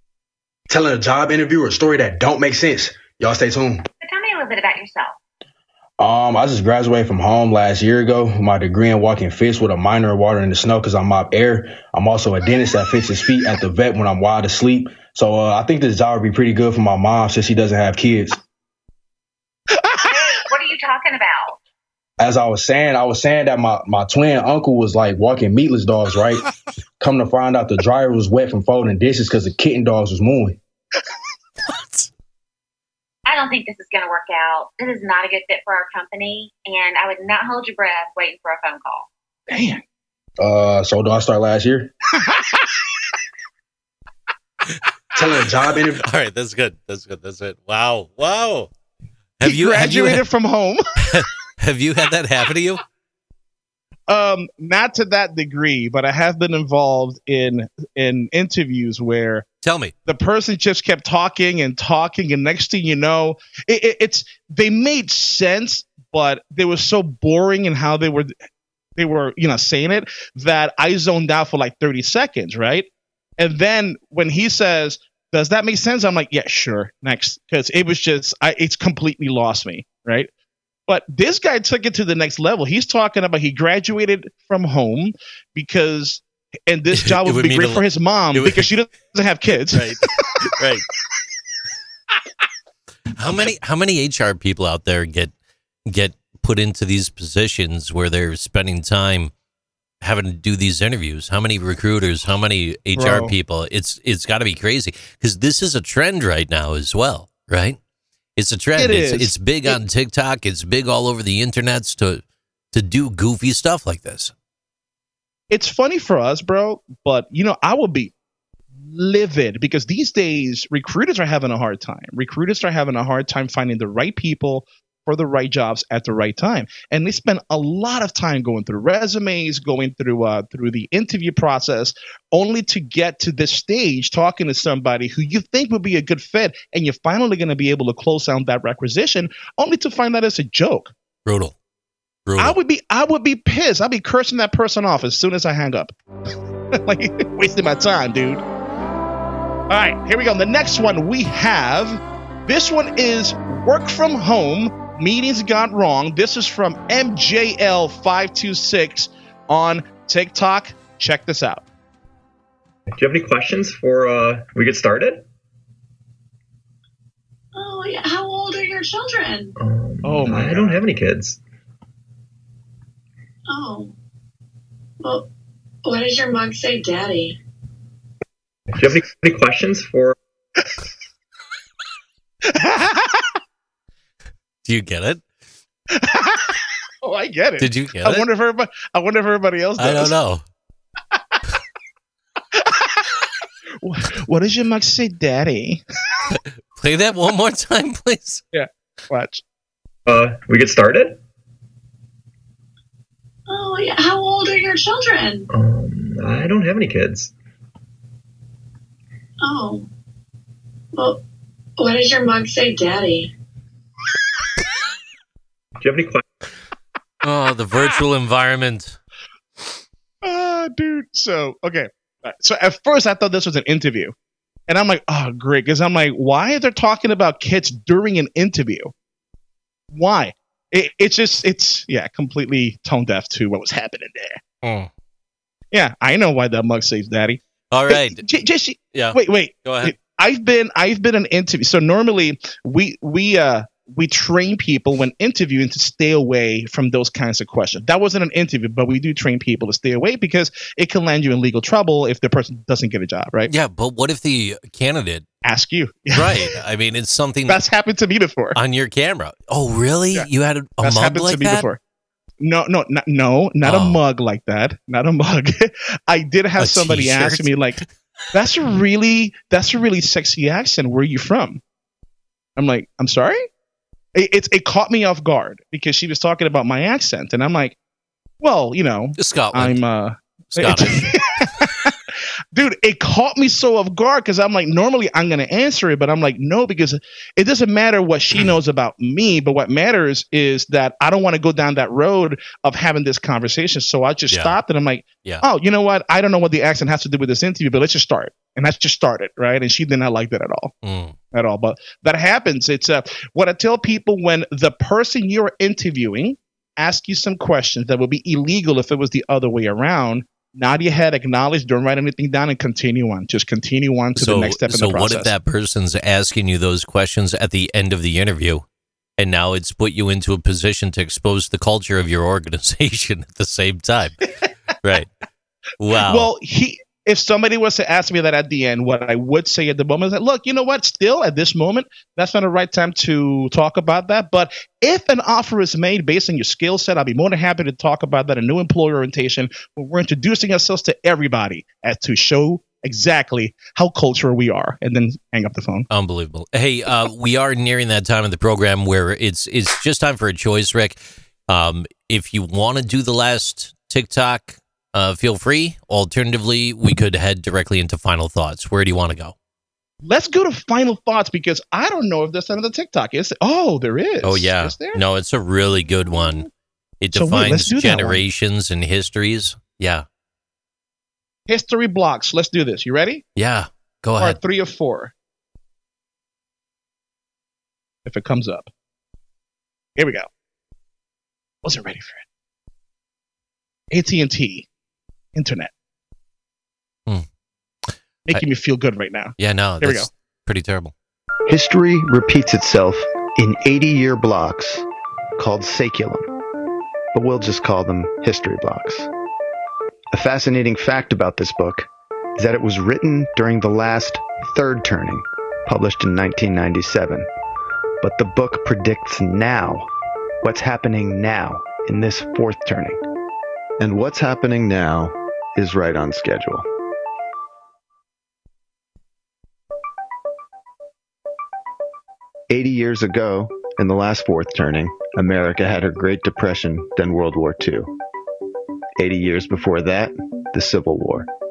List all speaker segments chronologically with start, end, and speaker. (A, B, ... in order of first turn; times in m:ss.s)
0:00.7-0:03.9 A
0:04.0-0:05.2 B
0:06.0-0:18.4 A
0:19.8-0:21.6 B
0:22.2-0:26.4 A
0:27.0-0:30.6 A
0:33.2-0:39.1 B
0:39.5-0:39.8 C
0:40.4-0:41.9 A
0:42.2-0:42.6 C
0:45.1-0:46.0 A
0:45.9-0:48.7 D
0:49.4-0:50.2 D
0:49.4-0:50.8 C
0:51.0-0:52.8 D
0:54.1-0:59.4 C
0:59.6-0:59.9 D
1:00.0-1:08.3 C
1:09.0-1:20.3 C
1:20.9-1:30.0 C
1:26.9-1:28.7 D
1:29.7-1:30.8 D
1:33.2-1:35.3 D
1:35.8-1:39.3 D
1:40.0-1:47.8 D
1:43.0-1:43.3 C
1:48.4-1:54.3 D
1:48.8-1:49.8 C
1:55.5-1:58.1 C
1:58.8-2:20.9 C
2:21.2-2:21.5 D
2:22.2-2:22.6 D
2:22.4-2:25.9 C
2:26.7-2:28.4 C
2:29.7-2:41.6 C
2:42.9-2:45.2 E
2:47.5-2:49.5 F
2:49.6-2:51.4 E
2:50.0-2:50.7 C
2:53.5-2:53.9 F
2:55.0-2:55.3 F
2:55.8-2:57.4 F
2:58.7-3:00.2 E
3:02.4-3:03.4 C
3:04.6-3:05.2 D
3:05.9-3:10.1 C
3:07.6-3:08.2 D
3:09.8-3:10.4 D
3:12.5-3:13.2 C
3:13.8-3:15.8 C
3:16.8-3:18.4 D
3:18.5-3:19.4 C
3:20.0-3:21.2 E
3:23.5-3:25.5 F
3:25.5-3:27.3 E
3:29.4-3:29.9 F
3:30.9-3:31.2 F
3:31.8-3:33.3 F
3:35.8-3:36.2 E
3:37.2-3:39.0 D
3:40.2-3:44.1 C
3:44.7-3:48.9 C
3:49.9-3:54.4 C
3:54.6-3:54.9 D
3:55.7-4:13.5 C
3:57.7-3:58.2 D
3:58.9-3:59.9 D
4:13.5-4:15.2 D
4:15.4-4:16.6 C
4:16.1-4:17.6 D
4:17.5-4:18.6 C
4:18.5-4:21.6 D
4:20.8-4:21.8 C
4:22.4-4:27.8 C
4:23.6-4:24.0 D
4:26.6-4:27.8 D
4:28.3-4:31.6 C
4:32.6-4:33.5 C
4:34.1-4:37.8 C
4:38.4-5:00.7 C
4:39.2-4:39.8 D
4:40.5-4:41.1 D
4:54.3-4:54.5 D
5:00.8-5:01.2 D
5:01.3-5:15.3 C
5:14.2-5:18.6 D
5:19.2-5:24.3 D
5:24.8-5:25.1 D
5:25.8-5:26.3 D
5:26.0-5:45.9 C
5:45.9-5:59.3 D
6:00.0-6:05.0 C
6:04.2-6:06.5 D
6:07.0-6:10.0 D
6:07.1-6:08.2 C
6:11.5-6:13.2 C
6:13.4-6:14.4 D
6:14.2-6:15.1 C
6:18.0-6:18.7 C
6:20.0-6:20.3 C
6:21.6-6:22.2 C
6:23.9-6:24.7 C
6:25.3-6:25.7 C
6:28.3-6:30.1 C
6:29.4-6:30.9 D
6:31.5-6:34.8 G
6:35.4-6:36.3 G
6:37.1-6:39.1 G
6:40.1-6:47.3 G
6:48.0-6:49.9 G
6:50.4-6:53.0 G
6:53.8-6:56.6 G
7:02.5-7:07.9 G
7:09.0-7:11.3 G